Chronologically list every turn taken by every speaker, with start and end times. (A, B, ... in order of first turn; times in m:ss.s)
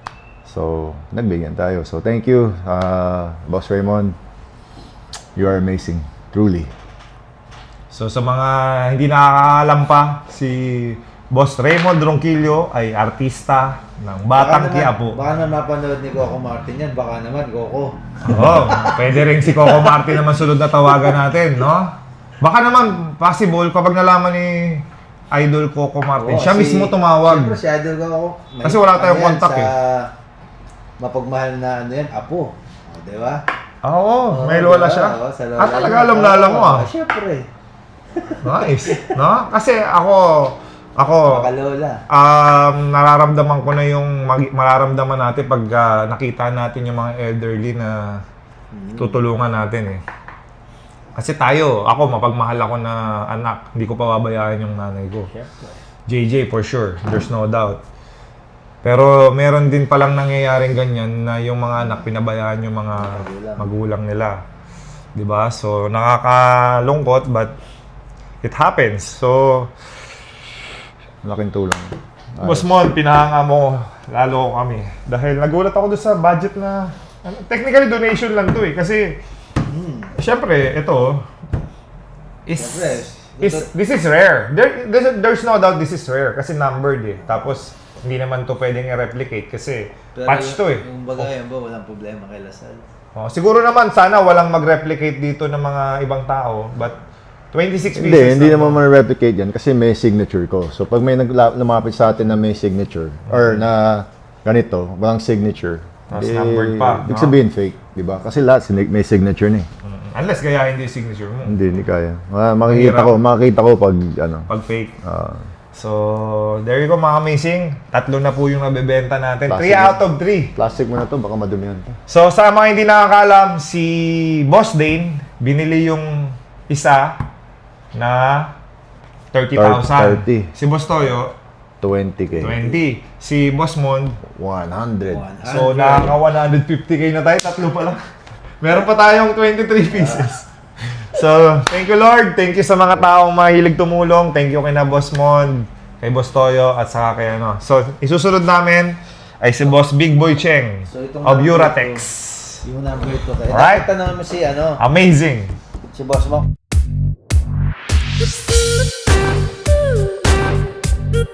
0:00.4-0:04.1 A
0:05.4-0:06.7 A
0:07.9-0:15.2 B
0:14.3-0:17.9 C
0:18.2-0:27.6 B
0:18.5-0:19.0 C
0:26.2-0:30.1 C
0:28.6-0:29.7 B
0:31.0-0:33.4 C
0:33.8-0:36.9 B
0:34.2-0:37.4 C
0:38.2-0:39.2 C
0:38.4-0:41.5 B
0:41.2-0:42.0 C
0:42.1-0:48.0 B
0:48.7-0:49.3 C
0:49.0-0:50.0 B
0:51.2-0:55.3 B
0:55.3-0:55.8 C
0:56.1-0:57.8 B
0:58.8-1:04.4 B
1:01.8-1:02.1 C
1:02.9-1:03.7 C
1:05.2-1:07.6 B
1:08.4-1:09.7 B
1:11.2-1:12.7 A
1:12.4-1:19.2 B
1:19.6-1:20.1 C
1:20.2-1:21.2 B
1:22.5-1:31.3 B
1:22.5-1:23.7 C
1:30.1-1:32.8 C
1:33.1-1:37.0 B
1:37.5-1:38.8 B
1:37.9-1:49.7 A
1:43.3-1:43.6 B
1:46.1-1:47.4 B
1:49.8-1:51.6 B
1:51.4-1:54.5 A
1:52.7-1:53.2 B
1:54.5-1:54.9 B
1:55.0-1:55.4 A
1:55.7-2:00.5 B
1:59.5-2:00.0 A
2:00.5-2:02.0 A
2:02.1-2:07.1 B
2:07.9-2:08.5 B
2:09.3-2:11.3 B
2:09.6-2:10.5 A
2:11.8-2:12.8 A
2:12.4-2:14.2 B
2:14.2-2:15.2 A
2:15.1-2:16.2 C
2:15.4-2:18.0 B
2:18.6-2:20.5 B
2:19.9-2:20.3 C
2:21.0-2:32.6 B
2:30.9-2:32.0 C
2:32.6-2:34.8 C
2:33.5-2:33.9 B
2:34.8-2:35.5 B
2:35.9-2:36.5 C